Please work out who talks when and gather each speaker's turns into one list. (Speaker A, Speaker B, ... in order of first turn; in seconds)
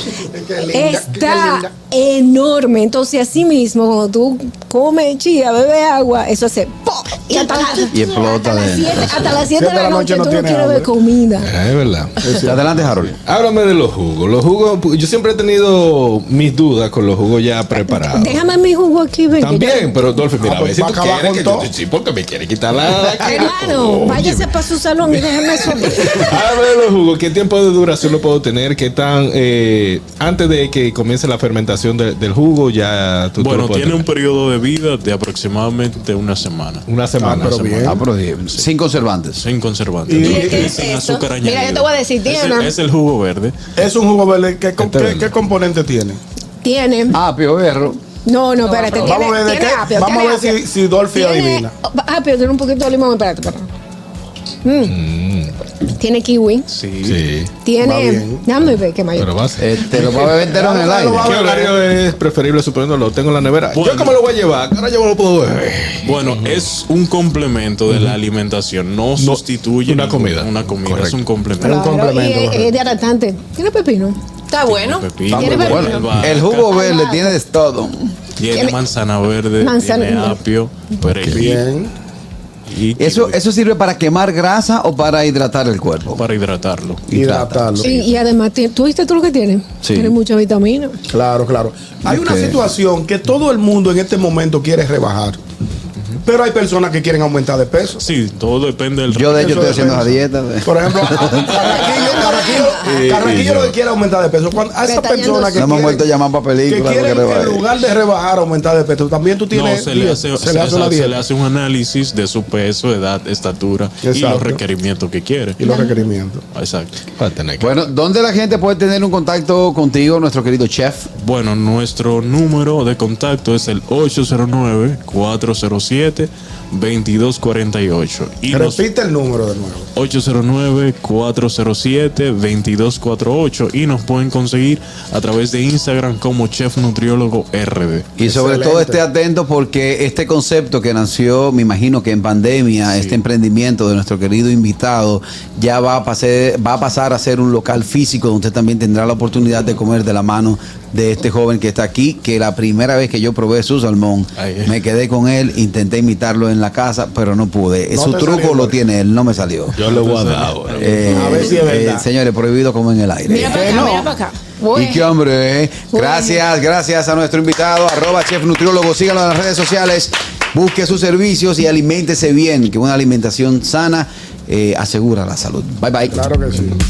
Speaker A: 0.3-1.7, 9.5-10.9, 12.2-12.8, 20.4-21.7, 37.2-38.0, 40.1-40.8, 43.8-46.2, 49.0-51.7, 57.8-58.4, 59.9-61.8, 71.6-72.7, 75.3-75.7, 81.3-81.9, 87.1-87.9, 91.1-95.4, 96.2-98.0, 99.3-106.0, 106.6-111.2, 114.0-114.6, 115.6-116.4, 128.5-129.9, 138.2-139.0, 157.9-158.8, 161.1-162.1, 163.4-164.1, 176.1-176.8
Speaker B: 0.7-11.5, 17.7-20.1, 23.2-26.6, 40.2-40.8, 41.4-42.7, 46.6-47.2, 48.2-50.6, 51.1-53.7, 54.6-55.0, 56.0-56.7, 57.6-59.3, 71.6-74.2, 75.3-76.1, 76.7-77.3, 78.5-78.8, 79.6-80.4, 87.8-91.0, 101.6-102.8, 104.8-105.8, 115.7-116.0, 163.3-165.1, 165.9-166.4
Speaker C: 7.4-7.9, 40.3-41.8, 48.6-49.2, 74.5-75.2
Speaker D: 7.9-9.4, 12.4-13.2, 37.8-39.4, 44.8-45.3, 47.1-48.0, 59.6-61.3, 75.4-78.1, 83.0-86.2, 87.1-87.8, 89.8-90.1, 92.0-92.6, 99.1-101.5, 105.5-107.7, 117.6-121.1, 138.2-159.8, 160.8-164.0, 164.7-176.7
Speaker E: 11.4-12.3, 13.2-18.4, 19.3-34.0, 36.9-37.8, 54.9-55.5, 57.0-57.5, 59.1-60.3, 61.2-66.7, 67.9-68.2, 69.2-71.2, 81.1-81.5, 102.0-102.3, 102.8-103.8, 117.2-117.8, 159.8-161.1
Speaker F: 33.4-36.8, 37.5-38.0, 39.3-43.5, 56.7-57.2, 63.7-64.2, 66.0-71.8, 74.6-76.7, 78.4-81.7, 82.7-83.4, 86.1-87.0, 98.0-100.1, 109.5-115.6, 116.5-117.0, 121.2-128.8, 129.9-138.1, 142.8-143.2, 154.3-154.8, 159.8-161.5